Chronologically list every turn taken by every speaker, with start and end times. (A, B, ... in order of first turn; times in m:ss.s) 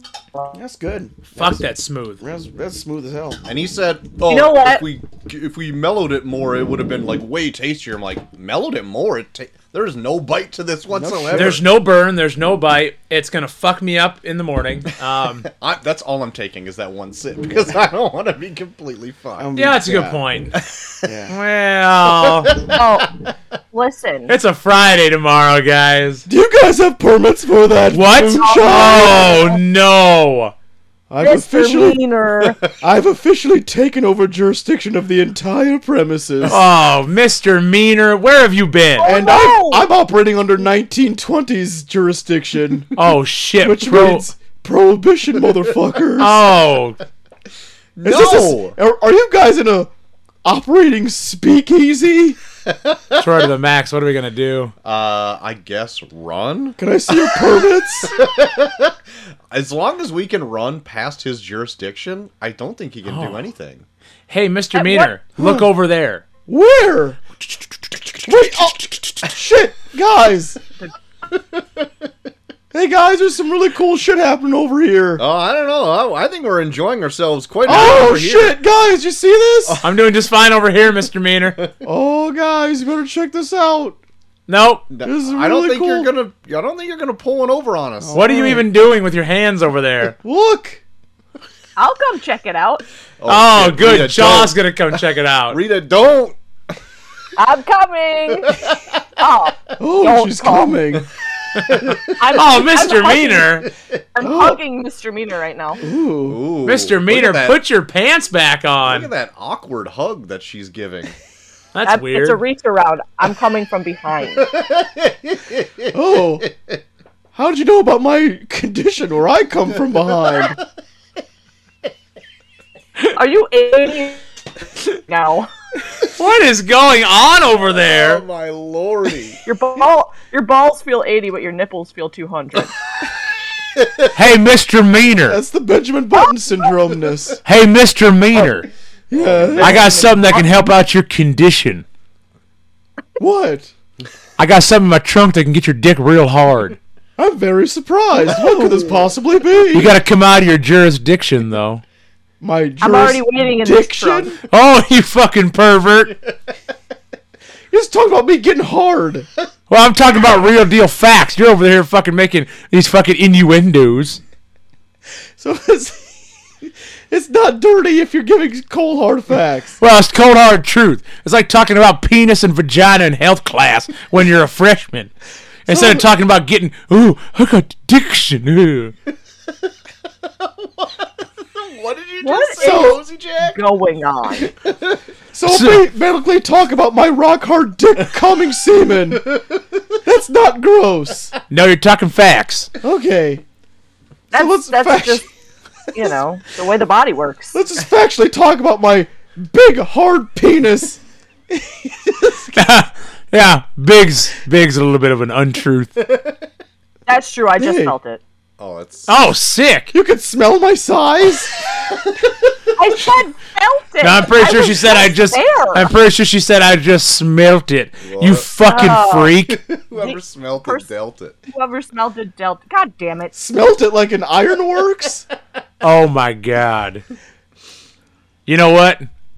0:00.5-0:01.6 A
0:01.4-0:02.2 B
0:02.2-0:03.4 A
0:03.4-0:11.6 C
0:04.3-0:04.8 D
0:10.9-0:11.6 A
0:11.3-0:15.5 B
0:15.4-0:19.5 C
0:19.4-0:20.2 A
0:19.6-0:20.6 B
0:20.5-0:21.0 C
0:21.0-0:21.3 A
0:21.3-0:22.6 B
0:22.2-0:22.8 C
0:22.7-0:23.1 D
0:23.7-0:24.3 D
0:24.3-0:26.2 B
0:26.3-0:29.4 A
0:27.9-0:30.5 B
0:28.3-0:29.6 D
0:31.1-0:32.0 A
0:31.2-0:32.6 D
0:32.4-0:32.7 C
0:32.8-0:36.6 A
0:36.4-0:39.1 B
0:39.0-0:39.9 D
0:39.0-0:43.0 A
0:43.0-0:44.3 B
0:43.6-0:46.4 A
0:46.2-0:47.0 B
0:48.0-0:48.8 C
0:48.0-0:49.9 A
0:50.4-0:52.4 A
0:52.6-0:53.3 C
0:53.2-0:54.7 B
0:54.8-0:59.0 C
0:56.8-0:58.2 A
0:59.5-1:03.8 C
1:03.0-1:03.4 B
1:04.3-1:06.2 B
1:04.7-1:05.1 D
1:05.4-1:05.6 A
1:06.5-1:07.2 A
1:08.2-1:10.6 A
1:11.3-1:11.9 C
1:12.7-1:15.2 A
1:15.2-1:18.6 C
1:17.6-1:19.8 A
1:19.6-1:20.0 C
1:19.8-1:21.6 B
1:21.8-1:24.0 A
1:24.5-1:24.8 B
1:24.9-1:28.3 C
1:25.0-1:26.1 A
1:28.0-1:28.6 A
1:28.1-1:30.2 B
1:30.2-1:30.8 A
1:31.8-1:32.8 D
1:33.2-1:36.4 C
1:33.3-1:35.6 B
1:37.4-1:40.8 D
1:38.5-1:38.7 C
1:39.8-1:41.0 A
1:41.6-1:42.2 C
1:42.2-1:45.8 D
1:42.3-1:43.7 B
1:44.2-1:44.6 A
1:45.8-1:46.4 A
1:46.2-1:47.6 C
1:46.6-1:49.1 B
1:48.8-1:51.1 C
1:51.7-1:52.4 B
1:51.8-1:54.5 D
1:54.3-1:56.8 C
1:55.9-1:56.5 A
1:57.3-2:00.6 A
2:03.2-2:04.2 D
2:04.8-2:05.5 D
2:06.0-2:08.2 B
2:07.6-2:09.4 C
2:09.4-2:12.7 D
2:13.7-2:14.1 C
2:14.1-2:15.4 B
2:15.3-2:17.4 A
2:17.4-2:18.7 B
2:19.1-2:20.0 A
2:19.1-2:19.9 C
2:19.6-2:20.5 D
2:19.6-2:21.8 B
2:23.2-2:23.7 A
2:24.4-2:26.8 B
2:27.2-2:29.9 A
2:29.7-2:31.8 B
2:32.4-2:34.4 A
2:32.8-2:34.3 D
2:34.5-2:36.1 B
2:37.7-2:39.3 A
2:39.7-2:44.2 B
2:45.4-2:49.8 A
2:49.8-2:55.1 B
2:55.6-2:58.9 B
2:55.7-2:56.0 A
3:00.2-3:03.6 C
3:02.2-3:04.5 D
3:02.6-3:03.0 A
3:04.6-3:05.0 C
3:05.3-3:09.3 A
3:05.4-3:05.8 B
3:09.2-3:09.8 C
3:10.0-3:11.3 A
3:11.5-3:12.7 B
3:12.8-3:13.4 A
3:14.3-3:15.3 D
3:14.4-3:15.2 A
3:15.9-3:17.5 D
3:17.5-3:21.0 A
3:21.5-3:22.6 A
3:22.5-3:26.0 B
3:26.1-3:26.3 C
3:27.1-3:28.2 D
3:27.6-3:27.9 A
3:28.6-3:29.2 C
3:29.1-3:29.9 B
3:29.9-3:31.5 A
3:31.9-3:32.6 C
3:32.8-3:35.9 D
3:34.0-3:39.6 B
3:38.0-3:38.5 C
3:38.6-3:39.4 D
3:39.4-3:41.4 C
3:40.0-3:40.9 D
3:41.5-3:43.3 D
3:43.3-3:45.2 A
3:45.8-3:47.0 B
3:48.4-3:49.1 B